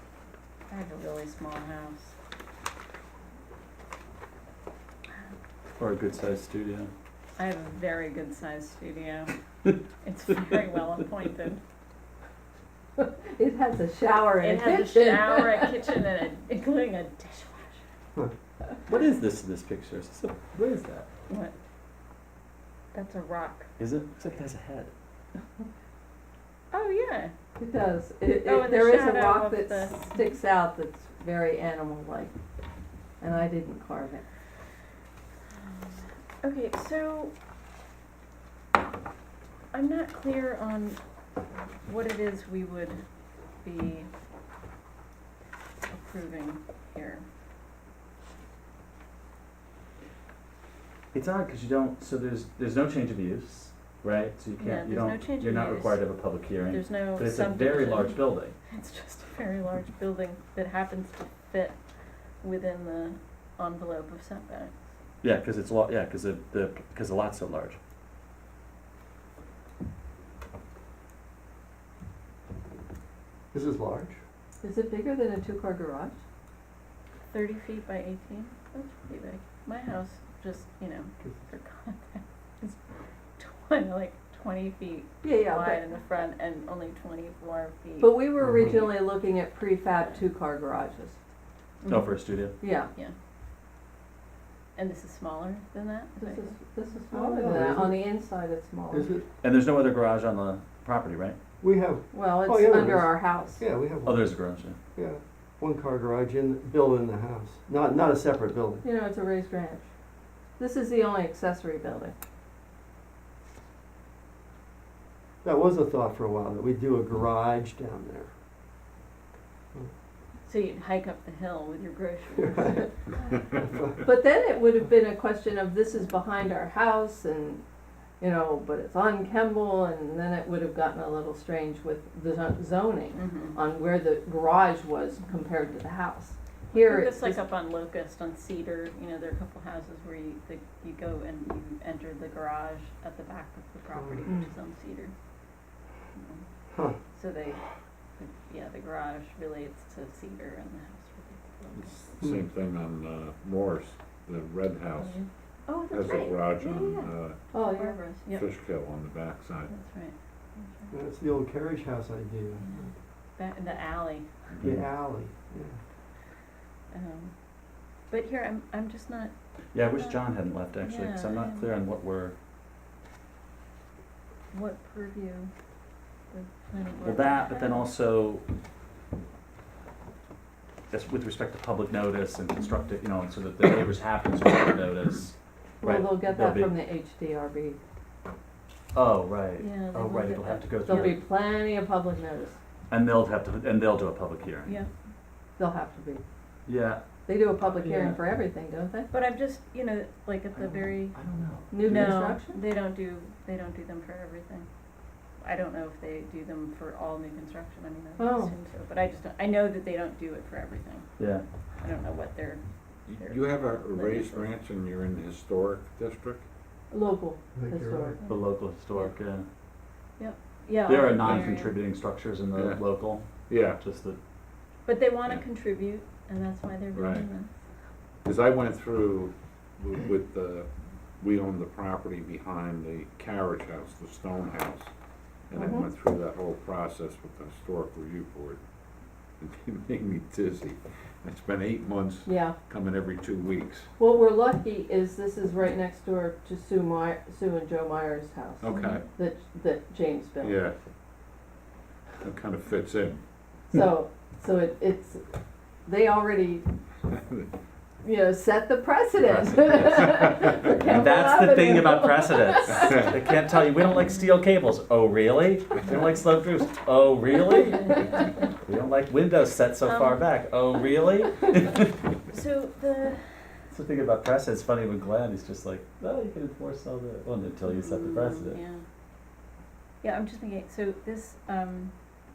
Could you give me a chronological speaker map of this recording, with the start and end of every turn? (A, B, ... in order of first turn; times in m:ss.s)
0:00.7-0:02.1 A
0:05.8-0:06.9 B
0:07.4-0:09.3 A
0:10.0-0:11.6 A
0:13.0-0:15.7 C
0:14.4-0:17.8 A
0:18.9-0:21.1 B
0:21.3-0:21.5 A
0:22.9-0:23.7 A
0:23.8-0:24.9 B
0:26.7-0:27.3 A
0:27.6-0:32.3 C
0:28.4-0:30.2 A
0:33.2-0:34.2 C
0:35.7-0:37.3 A
0:39.7-0:41.0 A
0:41.8-0:43.0 A
0:43.6-0:44.1 A
0:45.9-0:47.2 A
0:51.1-0:58.5 B
0:54.6-1:01.8 A
1:02.4-1:04.7 A
1:05.2-1:07.8 B
1:13.5-1:14.2 D
1:14.6-1:16.2 C
1:17.3-1:22.8 A
1:23.4-1:28.2 A
1:25.2-1:25.8 C
1:28.0-1:31.2 C
1:28.4-1:28.9 D
1:31.8-1:32.1 A
1:31.9-1:32.5 B
1:32.6-1:32.9 C
1:34.8-1:36.5 A
1:36.2-1:39.1 C
1:37.1-1:38.1 D
1:38.9-1:39.2 D
1:39.4-1:41.4 B
1:41.6-1:44.3 D
1:42.1-1:43.6 C
1:44.1-1:44.8 B
1:44.9-1:48.8 D
1:48.8-1:49.9 C
1:50.6-1:52.1 C
1:55.4-1:58.3 D
2:00.4-2:02.9 A
2:02.4-2:02.8 D
2:03.6-2:04.0 D
2:04.0-2:07.6 C
2:08.2-2:17.4 C
2:13.1-2:13.5 A
2:16.7-2:25.1 A
2:23.9-2:24.3 D
2:26.2-2:26.4 A
2:26.7-2:27.0 D
2:27.1-2:27.6 A
2:28.2-2:32.1 A
2:31.7-2:35.2 E
2:35.0-2:35.3 A
2:35.7-2:36.3 C
2:35.9-2:37.4 E
2:36.6-2:38.5 A
2:37.5-2:38.0 C
2:38.3-2:39.7 E
2:39.7-2:40.9 A
2:40.9-2:42.6 D
2:42.6-2:44.3 A
2:44.6-2:45.8 D
2:46.9-2:47.3 A
2:48.1-2:49.3 A
2:49.7-2:52.3 B
2:50.0-2:50.2 A
2:50.8-2:51.7 A
2:54.5-2:55.5 A
2:56.3-2:57.9 A
2:57.0-2:58.4 B
3:00.9-3:06.7 B
3:05.8-3:07.8 C
3:08.9-3:11.2 B
3:09.6-3:11.0 A
3:10.8-3:12.6 C
3:12.9-3:14.8 B
3:14.6-3:14.9 A
3:15.6-3:16.2 C
3:16.7-3:17.0 B
3:17.2-3:19.1 C
3:17.6-3:18.2 B
3:19.1-3:21.1 A
3:20.5-3:22.1 B
3:21.7-3:22.6 C
3:21.8-3:24.7 A
3:25.4-3:31.1 A
3:28.2-3:28.5 C
3:31.2-3:31.4 B
3:31.8-3:34.5 A
3:33.1-3:36.4 E
3:36.9-3:38.2 C
3:37.5-3:38.2 D
3:38.2-3:39.1 A
3:38.3-3:39.4 B
3:40.2-3:41.7 A
3:40.9-3:43.2 B
3:41.1-3:41.6 E
3:42.5-3:42.8 E
3:43.5-3:43.8 E
3:43.8-3:44.2 B
3:44.8-3:47.5 A
3:46.9-3:47.3 E
3:48.2-3:50.7 E
3:51.2-3:54.9 E
3:55.5-3:58.6 E
3:55.5-3:55.9 C
3:59.4-4:03.9 E
4:02.2-4:02.6 C
4:04.0-4:10.6 C
4:08.6-4:09.0 E
4:08.7-4:09.0 A
4:10.4-4:10.7 E
4:12.2-4:13.2 E
4:13.7-4:15.2 C
4:15.8-4:16.6 C
4:18.0-4:23.1 C
4:20.8-4:27.9 B
4:28.6-4:31.9 B
4:29.8-4:30.2 A
4:32.3-4:33.3 A
4:33.7-4:38.6 B
4:37.7-4:38.8 A
4:40.0-4:41.9 A